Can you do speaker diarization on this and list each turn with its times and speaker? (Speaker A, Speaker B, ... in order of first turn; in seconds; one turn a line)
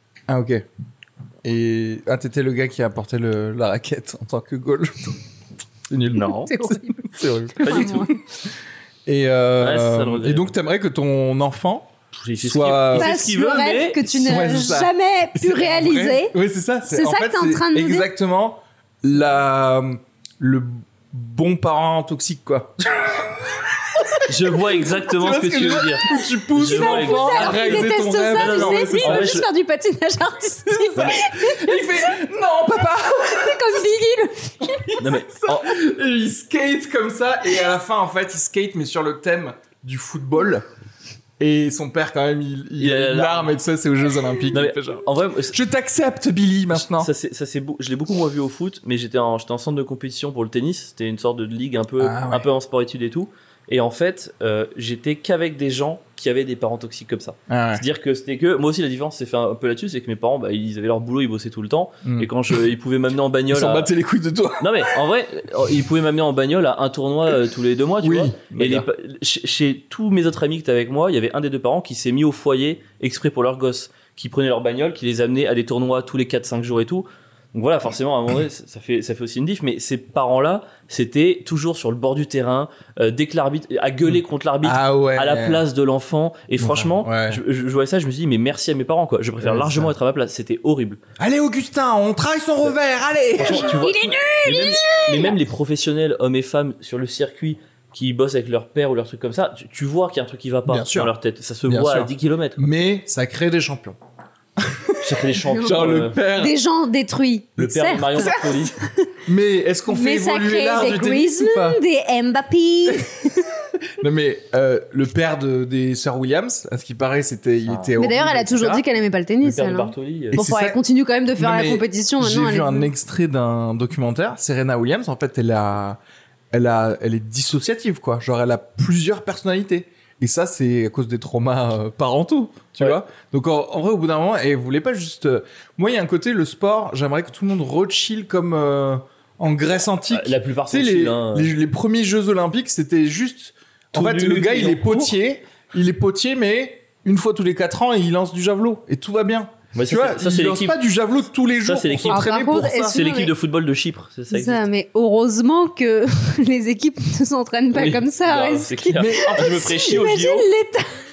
Speaker A: 0.3-0.6
Speaker A: 1.4-5.2
Speaker A: 5.9-8.2
Speaker B: 6.1-6.5
Speaker C: 6.5-7.0
Speaker C: 7.5-8.1
Speaker B: 7.6-8.1
Speaker A: 9.1-13.2
Speaker B: 9.6-10.5
Speaker B: 12.1-14.0
Speaker C: 12.9-16.3
Speaker A: 14.1-23.2
Speaker C: 16.9-18.1
Speaker A: 24.0-24.3
Speaker B: 24.3-29.4
Speaker A: 24.9-29.4
Speaker C: 26.6-32.1
Speaker A: 30.7-33.6
Speaker B: 30.9-31.2
Speaker C: 33.2-34.9
Speaker A: 34.7-40.6
Speaker B: 35.0-35.8
Speaker A: 41.4-47.1
Speaker B: 42.8-43.6
Speaker B: 44.5-45.6
Speaker B: 46.8-63.9
Speaker A: 52.0-52.5
Speaker A: 57.5-57.8
Speaker A: 62.0-62.3
Speaker A: 63.5-64.9
Speaker B: 64.6-91.0
Speaker A: 68.0-68.9
Speaker A: 84.1-85.6
Speaker A: 86.6-87.4
Speaker A: 89.4-89.9
Speaker A: 91.2-93.7
Speaker B: 93.4-102.6
Speaker C: 93.5-95.3
Speaker A: 100.7-101.1
Speaker A: 101.7-104.0
Speaker A: 104.6-106.5
Speaker B: 105.0-106.2
Speaker C: 106.3-109.1
Speaker B: 107.6-108.7
Speaker A: 108.1-108.6
Speaker A: 109.2-111.8
Speaker C: 109.9-113.4
Speaker A: 114.0-118.8
Speaker C: 118.0-122.9
Speaker B: 119.4-120.4
Speaker A: 120.3-120.8
Speaker A: 121.3-126.0
Speaker A: 126.5-153.0
Speaker B: 140.1-141.5
Speaker B: 143.9-145.2
Speaker B: 149.7-150.8
Speaker B: 151.6-154.6
Speaker C: 152.1-153.3
Speaker C: 154.3-160.9
Speaker B: 157.7-160.5
Speaker A: 158.9-159.7